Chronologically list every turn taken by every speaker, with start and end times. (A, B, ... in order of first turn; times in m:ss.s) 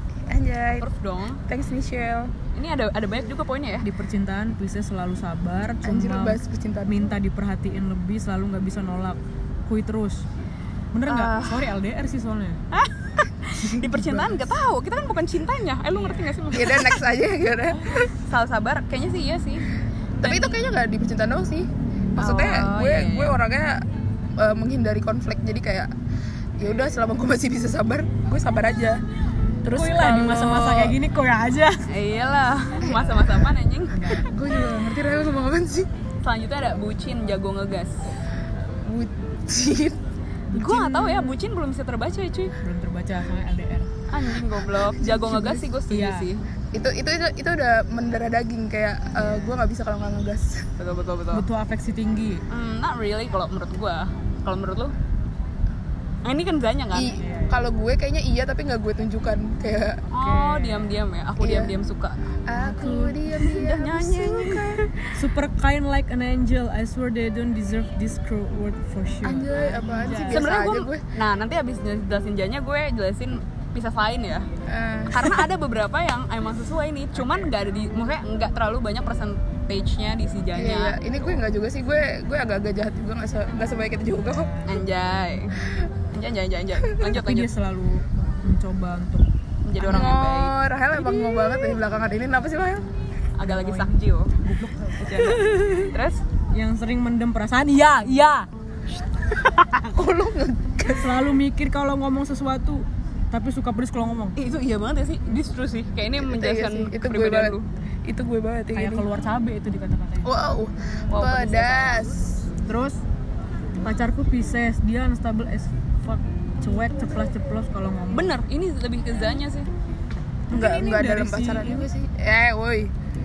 0:00.3-0:00.9 A
0:00.8-0:01.4 B
0:01.5-0:02.3 A
0:02.5-0:03.9 B
0:03.8-0:10.2 C
0:05.8-0:07.0 A
0:10.9-0:12.6 C
0:11.1-0:11.6 B
0:12.7-0:17.0 B
0:14.0-0:14.3 A
0:15.9-0:16.4 C
0:16.5-0:18.1 A
0:18.2-0:19.6 B
0:20.2-0:20.6 B
0:20.2-0:23.9 A
0:22.2-0:23.4 B
0:24.4-0:25.9 A
0:26.6-0:29.0 A
0:29.6-0:30.9 A
0:29.7-0:31.9 C
0:31.9-0:34.2 B
0:32.8-0:33.4 A
0:33.9-0:34.3 C
0:34.1-0:35.9 A
0:36.2-0:38.1 B
0:38.8-0:40.0 A
0:40.5-0:41.4 C
0:40.5-0:42.5 B
0:42.6-0:43.9 C
0:44.1-0:46.4 B
0:45.0-0:45.6 A
0:45.9-0:46.3 C
0:46.7-0:50.7 A
0:49.2-0:49.6 C
0:50.8-0:51.4 B
0:51.3-0:52.4 C
0:52.5-0:54.9 B
0:56.2-0:57.1 B
0:56.9-1:00.0 A
0:57.2-0:57.6 C
1:00.1-1:02.3 B
1:00.2-1:01.0 C
1:01.4-1:01.7 A
1:02.5-1:04.9 A
1:02.6-1:03.2 C
1:02.8-1:05.0 B
1:05.1-1:10.4 C
1:09.2-1:11.0 A
1:10.3-1:14.5 B
1:14.7-1:15.3 A
1:15.1-1:21.0 B
1:17.1-1:17.5 C
1:20.6-1:24.5 A
1:24.1-1:25.5 C
1:24.6-1:25.6 B
1:26.1-1:27.5 B
1:27.1-1:29.3 C
1:29.6-1:30.5 B
1:29.8-1:32.8 A
1:33.4-1:34.4 B
1:33.4-1:35.8 C
1:35.0-1:36.2 B
1:36.5-1:38.5 C
1:39.0-1:39.9 B
1:39.9-1:41.2 A
1:40.9-1:44.4 C
1:44.4-1:47.7 B
1:46.2-1:47.5 A
1:48.0-1:49.0 A
1:48.7-1:50.3 C
1:50.2-1:52.4 A
1:51.1-1:52.1 B
1:52.6-1:53.0 C
1:53.8-1:58.4 C
1:58.1-1:59.7 B
2:00.5-2:01.9 C
2:00.5-2:02.9 A